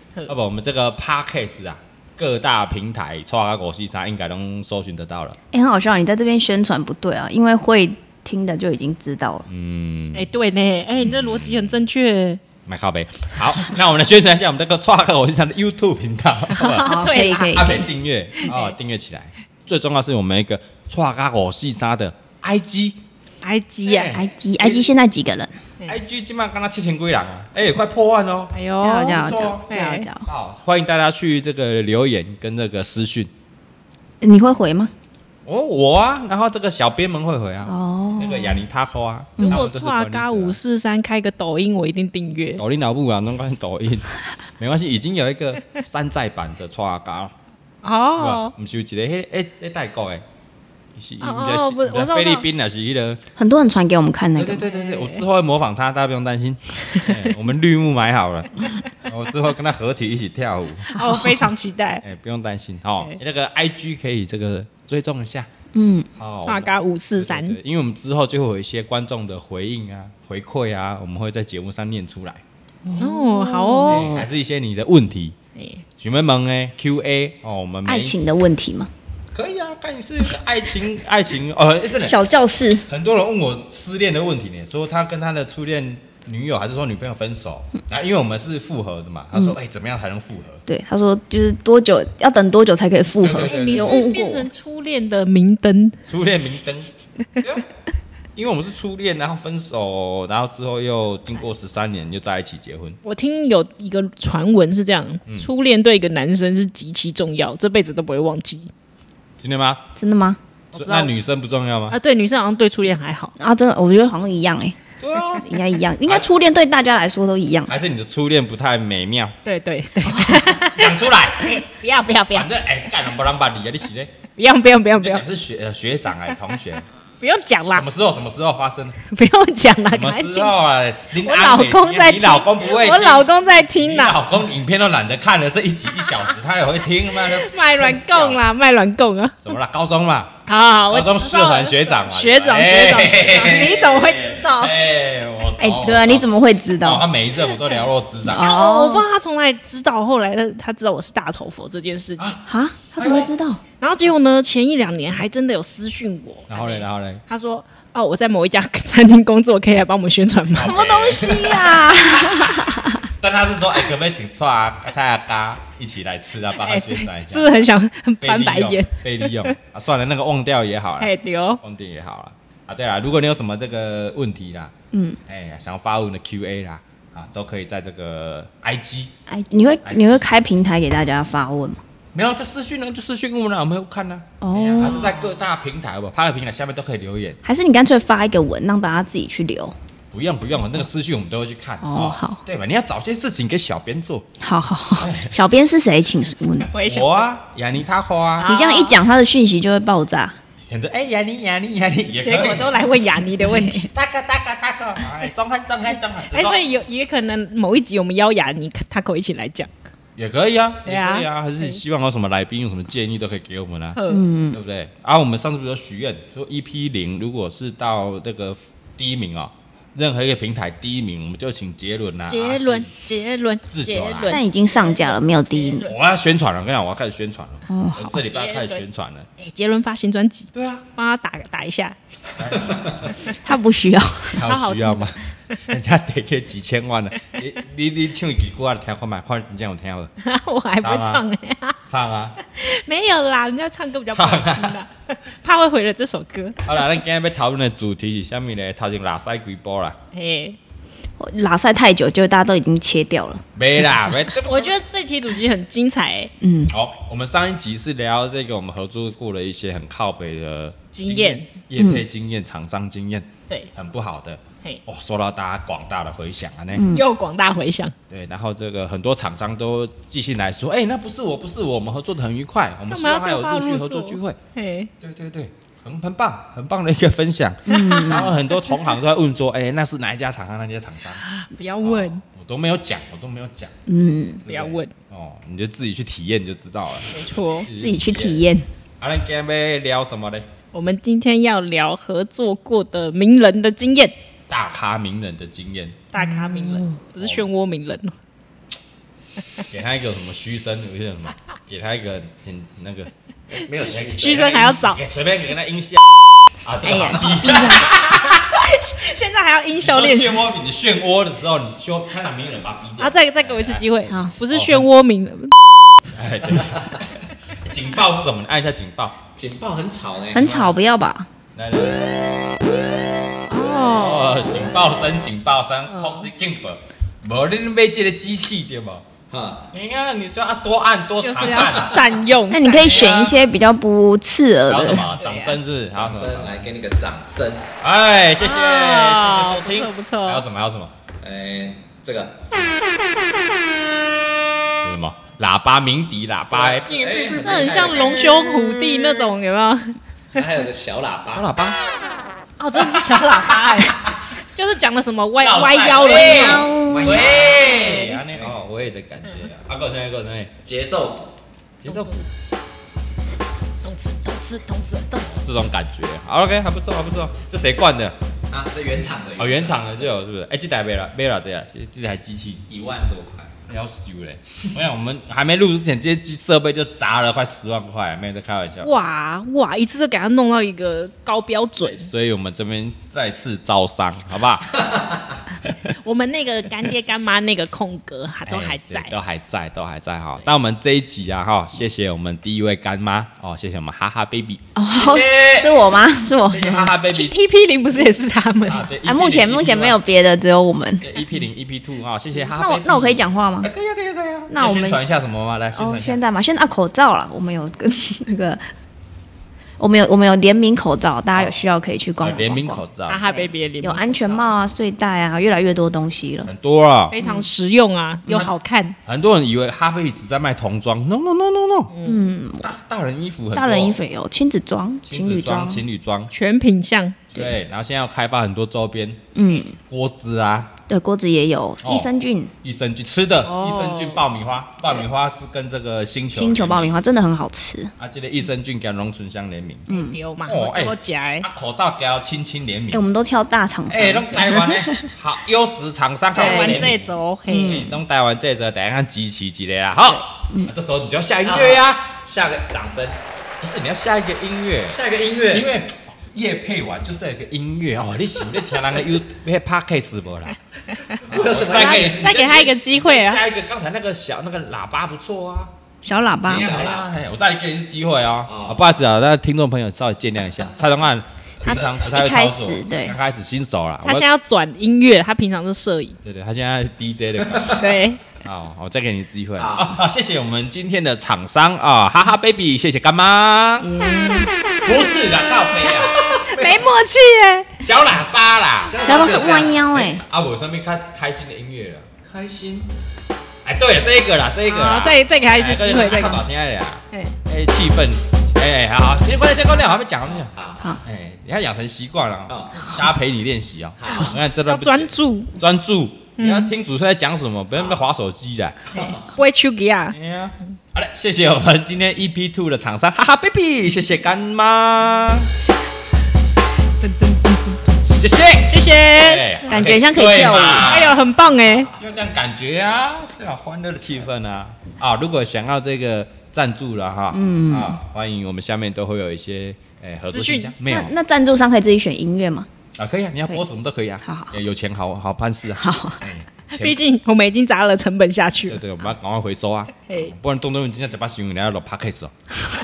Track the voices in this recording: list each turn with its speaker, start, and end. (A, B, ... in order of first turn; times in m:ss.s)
0:00.2-0:05.4 A
0:05.5-0:09.5 B
0:09.5-0:10.3 A
0:10.1-0:12.4 C
0:11.0-0:11.8 A
0:12.6-0:16.9 A
0:16.5-0:17.7 C
0:16.8-0:17.9 B
0:17.5-0:23.0 A
0:23.4-0:24.1 C
0:23.8-0:24.8 A
0:24.1-0:25.6 B
0:25.9-0:28.5 A
0:28.5-0:30.1 C
0:28.8-0:30.3 B
0:29.0-0:29.7 A
0:30.2-0:33.3 A
0:34.2-0:34.9 B
0:35.4-0:40.6 A
0:37.6-0:38.6 B
0:39.4-0:42.6 C
0:42.6-0:47.3 A
0:47.8-0:48.5 C
0:48.2-0:50.2 A
0:51.0-0:53.2 A
0:51.2-0:52.4 C
0:53.4-0:54.7 B
0:54.4-1:00.9 A
0:54.6-0:55.2 C
1:00.9-1:02.0 C
1:00.9-1:01.4 B
1:02.0-1:05.5 A
1:05.7-1:06.1 B
1:06.2-1:12.4 A
1:06.4-1:07.6 C
1:12.8-1:14.3 B
1:12.9-1:14.1 C
1:13.8-1:15.3 A
1:15.6-1:15.8 C
1:16.0-1:18.2 A
1:17.8-1:18.9 B
1:19.3-1:22.2 A
1:22.0-1:22.8 B
1:22.9-1:30.6 A
1:30.7-1:34.5 B
1:33.2-1:34.0 A
1:33.3-1:36.0 C
1:36.0-1:37.6 A
1:38.4-1:43.0 A
1:43.0-1:48.7 C
1:49.4-1:49.8 A
1:50.0-1:50.4 B
1:50.7-1:52.0 A
1:50.7-1:51.1 C
1:51.9-1:53.3 C
1:53.4-1:54.8 B
1:55.0-1:55.5 A
1:55.4-1:57.7 B
1:57.7-1:59.3 A
1:59.4-2:02.5 C
2:00.5-2:01.6 A
2:02.3-2:04.1 A
2:04.4-2:05.2 C
2:05.0-2:06.8 A
2:07.2-2:07.8 C
2:07.7-2:09.0 A
2:09.0-2:10.5 C
2:09.9-2:18.4 A
2:11.2-2:14.2 C
2:17.1-2:19.4 C
2:19.4-2:26.3 A
2:20.5-2:24.8 C
2:25.6-2:27.1 B
2:26.8-2:28.5 A
2:28.2-2:29.1 B
2:28.3-2:32.4 C
2:32.4-2:33.6 B
2:33.0-2:33.3 A
2:33.8-2:42.9 C
2:36.5-2:37.2 A
2:40.5-2:47.5 A
2:41.6-2:42.8 B
2:46.6-2:49.5 C
2:48.2-2:54.7 A
2:51.0-2:51.6 C
2:54.9-2:55.2 B
2:55.2-2:59.1 A
2:59.3-3:01.8 B
2:59.8-3:00.2 A
3:02.1-3:07.4 A
3:04.4-3:05.3 B
3:07.4-3:09.7 B
3:10.1-3:14.2 A
3:11.8-3:12.4 B
3:14.4-3:16.7 B
3:15.0-3:15.3 A
3:16.6-3:17.2 C
3:16.8-3:18.5 A
3:18.4-3:19.0 C
3:18.4-3:20.4 B
3:20.7-3:22.8 A
3:22.2-3:23.9 C
3:23.4-3:23.8 B
3:23.9-3:26.6 A
3:26.3-3:29.7 C
3:30.2-3:34.0 A
3:30.8-3:31.8 C
3:33.9-3:34.2 C
3:34.1-3:34.6 B
3:34.5-3:42.9 A
3:42.3-3:45.9 C
3:43.7-3:44.4 A
3:44.2-3:45.9 B
3:45.8-3:49.3 A
3:47.7-3:48.2 B
3:48.1-3:48.8 C
3:49.4-3:52.0 C
3:50.5-3:50.8 A
3:52.4-3:53.1 A
3:53.3-3:54.4 B
3:54.3-4:00.1 A
3:54.4-3:55.6 C
4:00.2-4:01.8 C
4:00.8-4:01.2 A
4:01.9-4:02.4 A
4:02.4-4:06.7 C
4:04.1-4:04.8 A
4:06.6-4:10.0 A
4:10.1-4:10.6 C
4:11.2-4:13.4 B
4:13.6-4:14.7 A
4:14.4-4:16.3 C
4:16.4-4:16.7 B
4:16.7-4:26.8 A
4:20.9-4:21.5 C
4:21.8-4:22.0 B
4:26.7-4:27.1 B
4:26.9-4:27.9 C
4:28.1-4:34.4 A
4:32.9-4:34.9 C
4:35.0-4:41.2 A
4:37.6-4:38.3 B
4:37.7-4:38.3 C
4:41.2-4:42.2 C
4:41.8-4:43.7 A
4:43.9-4:44.4 B
4:44.4-4:48.4 A
4:44.5-4:44.9 C
4:47.1-4:47.7 C
4:47.7-4:48.7 B
4:49.0-4:50.4 A
4:50.7-4:54.1 C
4:54.5-4:56.0 A
4:56.1-4:58.1 C
4:56.2-4:56.9 B
4:57.2-4:57.4 A
4:59.6-5:08.2 A
5:03.8-5:05.0 C
5:06.8-5:08.0 B
5:07.6-5:10.5 C
5:09.8-5:13.8 A
5:13.0-5:15.5 C
5:14.1-5:14.3 B
5:14.5-5:14.8 A
5:16.1-5:19.2 A
5:19.4-5:20.5 D
5:20.3-5:21.3 B
5:20.4-5:20.7 A
5:21.5-5:22.1 A
5:23.5-5:24.5 C
5:23.8-5:29.0 A
5:25.9-5:26.3 C
5:29.3-5:29.7 D
5:29.7-5:32.2 A
5:31.2-5:33.4 C
5:32.5-5:35.1 B
5:34.7-5:36.6 A
5:35.1-5:35.6 C
5:35.9-5:37.7 D
5:37.8-5:40.9 A
5:38.4-5:40.4 C
5:41.2-5:42.4 D
5:44.8-5:48.0 A
5:46.5-5:48.5 D
5:47.4-5:50.4 C
5:50.3-5:51.4 D
5:51.3-5:51.8 A
5:52.6-5:56.7 C
5:55.4-6:00.5 A
5:56.0-5:58.6 D
5:56.1-5:57.3 B
5:57.6-5:58.1 C
6:00.6-6:01.3 D
6:01.8-6:02.2 A
6:01.8-6:02.2 C
6:03.8-6:05.4 C
6:05.3-6:08.2 A
6:08.5-6:10.0 D
6:09.4-6:12.6 A
6:12.7-6:13.5 D
6:13.7-6:18.9 A
6:18.8-6:22.1 C
6:21.8-6:24.8 A
6:24.8-6:25.2 D
6:25.9-6:29.1 C
6:28.5-6:35.9 A
6:34.7-6:36.9 B
6:36.5-6:37.4 A
6:37.1-6:38.9 C
6:38.6-6:40.0 A
6:39.0-6:41.2 B
6:41.0-6:46.2 A
6:42.4-6:43.7 B
6:44.5-6:45.0 B
6:45.7-6:48.6 B
6:49.8-6:56.5 B
6:52.2-6:53.2 A
6:53.1-6:54.5 C
6:56.4-6:57.2 A
6:57.1-6:59.0 C
6:57.2-6:57.5 B
6:58.3-6:58.5 B
6:59.0-7:01.9 A
7:01.9-7:02.2 C
7:02.0-7:02.7 B
7:02.6-7:04.0 A
7:03.5-7:05.8 B
7:05.1-7:06.3 A
7:06.3-7:07.2 C
7:07.3-7:10.7 A
7:09.3-7:09.7 B
7:10.9-7:12.5 B
7:11.8-7:12.1 A
7:12.6-7:16.9 A
7:13.4-7:14.2 C
7:16.3-7:17.9 B
7:18.0-7:19.9 A
7:19.9-7:20.2 B
7:19.9-7:21.5 C
7:20.4-7:23.0 A
7:22.9-7:25.1 B
7:23.9-7:32.2 A
7:26.3-7:26.9 B
7:26.3-7:27.9 C
7:27.5-7:28.0 B
7:30.1-7:30.7 B
7:31.4-7:33.1 D
7:33.6-7:35.0 A
7:34.9-7:35.7 D
7:35.5-7:40.6 A
7:41.1-7:43.4 C
7:41.2-7:42.2 D
7:41.2-7:45.7 A
7:46.0-7:46.8 B
7:46.4-7:47.1 D
7:46.5-7:54.2 A
7:48.5-7:48.8 D
7:52.0-7:53.2 B
7:54.0-7:56.2 C
7:56.2-8:03.9 A
7:57.4-7:57.7 D
7:57.7-7:58.2 C
7:59.6-8:00.0 D
8:03.8-8:04.5 B
8:04.8-8:06.8 A
8:06.1-8:06.4 D
8:06.3-8:07.7 C
8:07.8-8:12.1 A
8:08.8-8:09.8 D
8:09.0-8:10.2 B
8:12.2-8:12.9 D
8:13.6-8:28.9 A
8:14.6-8:16.4 C
8:20.4-8:20.9 D
8:22.5-8:23.0 D
8:24.0-8:24.4 D
8:24.7-8:25.5 C
8:26.4-8:26.7 C
8:27.7-8:28.0 D
8:28.9-8:29.2 D
8:28.9-8:30.1 C
8:30.1-8:35.5 A
8:37.0-8:38.0 C
8:38.0-8:41.2 A
8:38.6-8:39.5 C
8:39.7-8:41.0 B
8:40.7-8:41.9 C
8:41.9-8:51.1 A
8:47.3-8:48.0 B
8:50.3-8:50.7 C
8:50.8-8:52.7 B
8:53.0-8:57.0 A
8:54.2-8:54.5 B
8:55.8-8:56.2 B
8:56.7-8:58.8 C
8:58.7-9:02.3 A